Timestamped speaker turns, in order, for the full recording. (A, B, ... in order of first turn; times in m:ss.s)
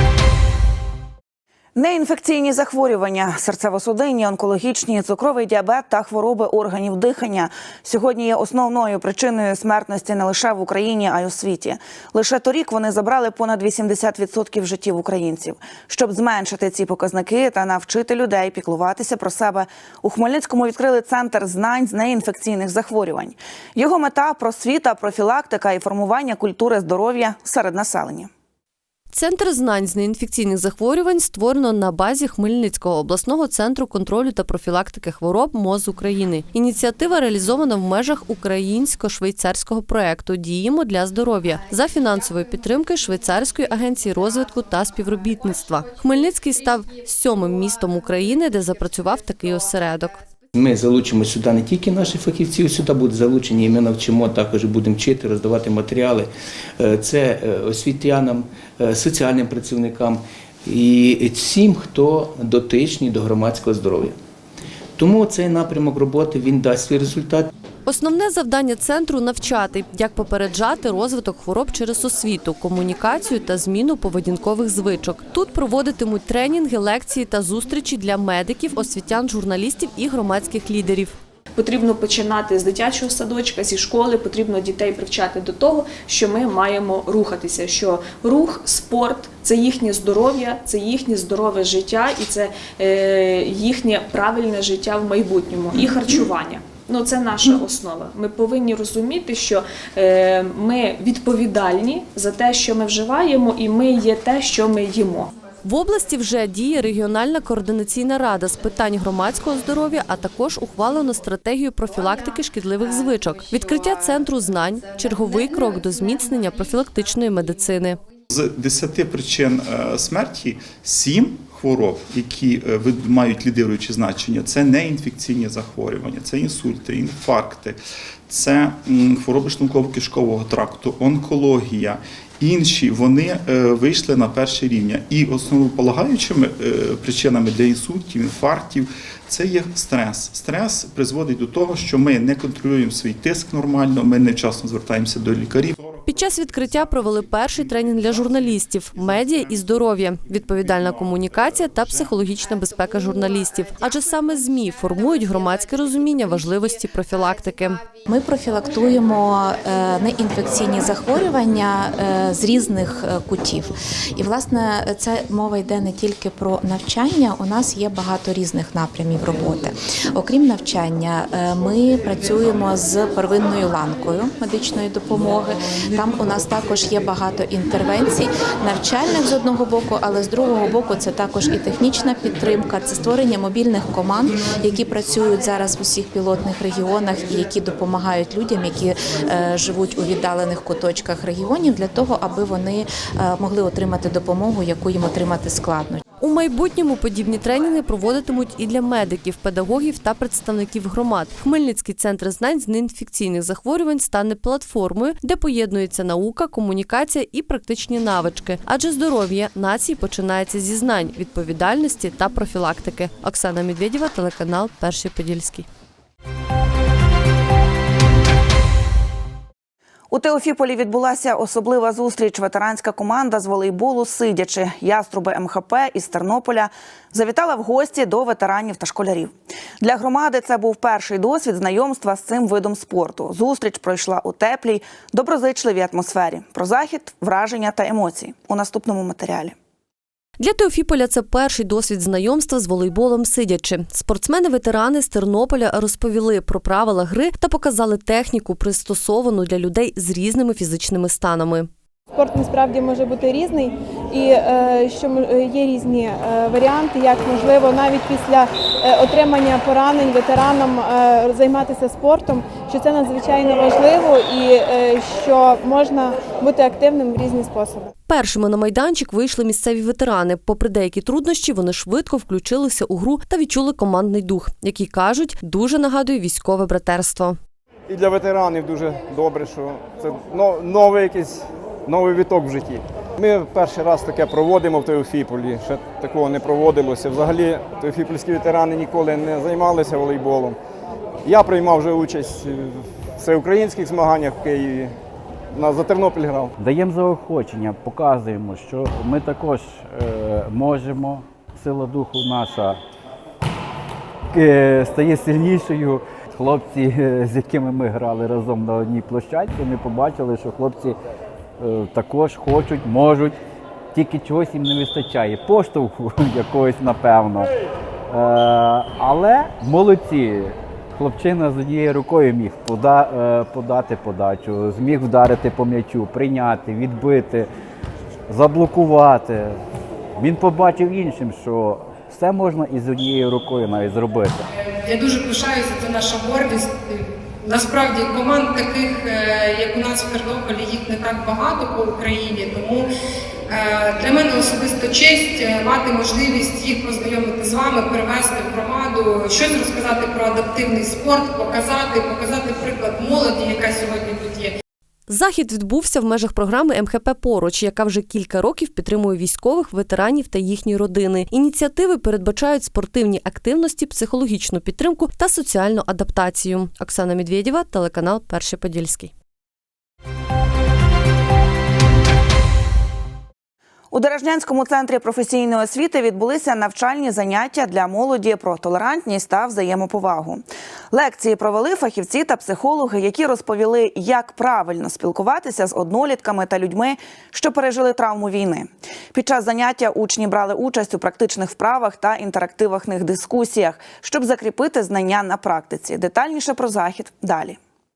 0:01.8-0:28.3 A
0:29.1-0:50.2 B
0:50.5-1:04.2 C
1:05.0-1:07.5 C
1:07.8-1:21.2 B
1:21.6-1:45.3 D
1:45.6-1:58.0 B
1:58.3-2:07.8 E
2:08.3-2:32.1 E
2:26.0-2:37.8 B
2:38.1-3:16.0 F
3:16.2-3:35.6 B
3:40.1-3:59.5 A
4:00.4-4:11.7 B
4:12.1-4:27.9 G
4:28.1-4:37.4 B
4:37.9-4:50.6 H
4:51.2-4:54.9 H
4:55.5-4:56.5 H
4:56.6-5:02.8 I
5:04.3-5:11.0 I
5:11.6-5:13.4 I
5:13.9-5:17.5 I
5:18.1-5:27.5 I
5:28.3-5:29.6 I
5:30.2-5:34.5 I
5:34.6-5:42.9 J
5:43.5-5:54.5 J
5:55.1-6:09.1 B
6:13.9-6:37.6 A